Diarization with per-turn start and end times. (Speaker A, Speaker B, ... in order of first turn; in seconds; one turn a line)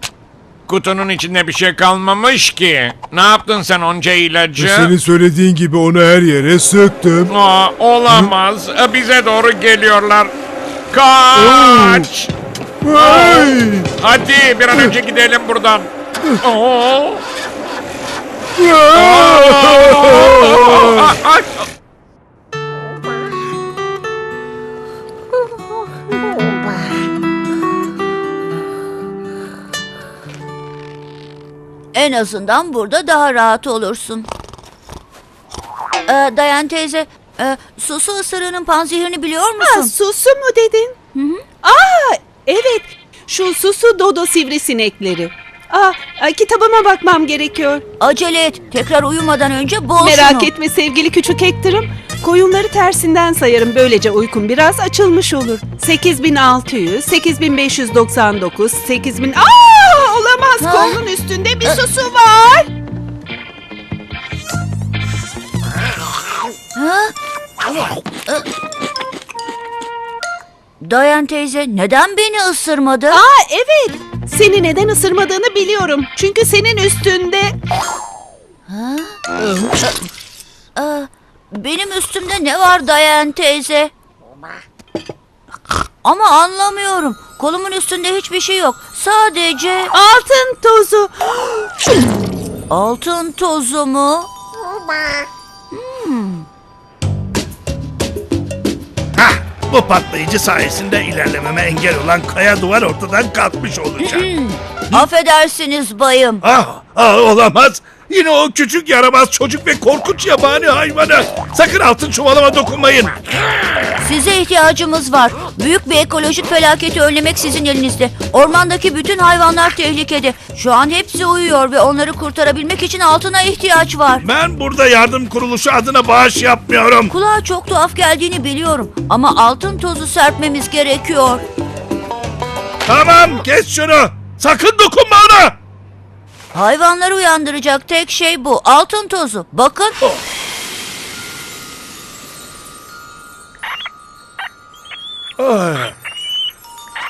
Speaker A: 0.7-4.9
Speaker B: 4.5-7.3
Speaker A: 7.3-10.3
Speaker A: 10.9-12.3
Speaker B: 11.3-12.1
Speaker B: 12.8-13.9
Speaker A: 12.9-15.9
Speaker A: 16.4-17.2
Speaker B: 18.6-21.1
Speaker A: 18.9-21.7
Speaker C: 31.9-34.3
Speaker C: 36.1-39.9
Speaker D: 39.6-41.0
Speaker C: 41.1-41.4
Speaker D: 41.6-47.8
Speaker C: 48.0-50.5
Speaker D: 50.0-62.7
Speaker C: 60.6-61.0
Speaker C: 66.7-67.1
Speaker C: 70.8-73.2
Speaker D: 73.1-77.5
Speaker C: 78.7-79.2
Speaker C: 80.7-83.9
Speaker C: 86.0-89.9
Speaker D: 89.9-91.9
Speaker C: 92.7-94.3
Speaker C: 95.7-96.5
Speaker E: 99.2-104.3
Speaker C: 104.0-106.4
Speaker E: 106.4-113.2
Speaker C: 114.0-124.2
Speaker E: 124.2-127.1
Speaker C: 127.1-131.4
Speaker E: 132.8-135.6
Speaker C: 136.5-140.0
Speaker E: 145.4-145.9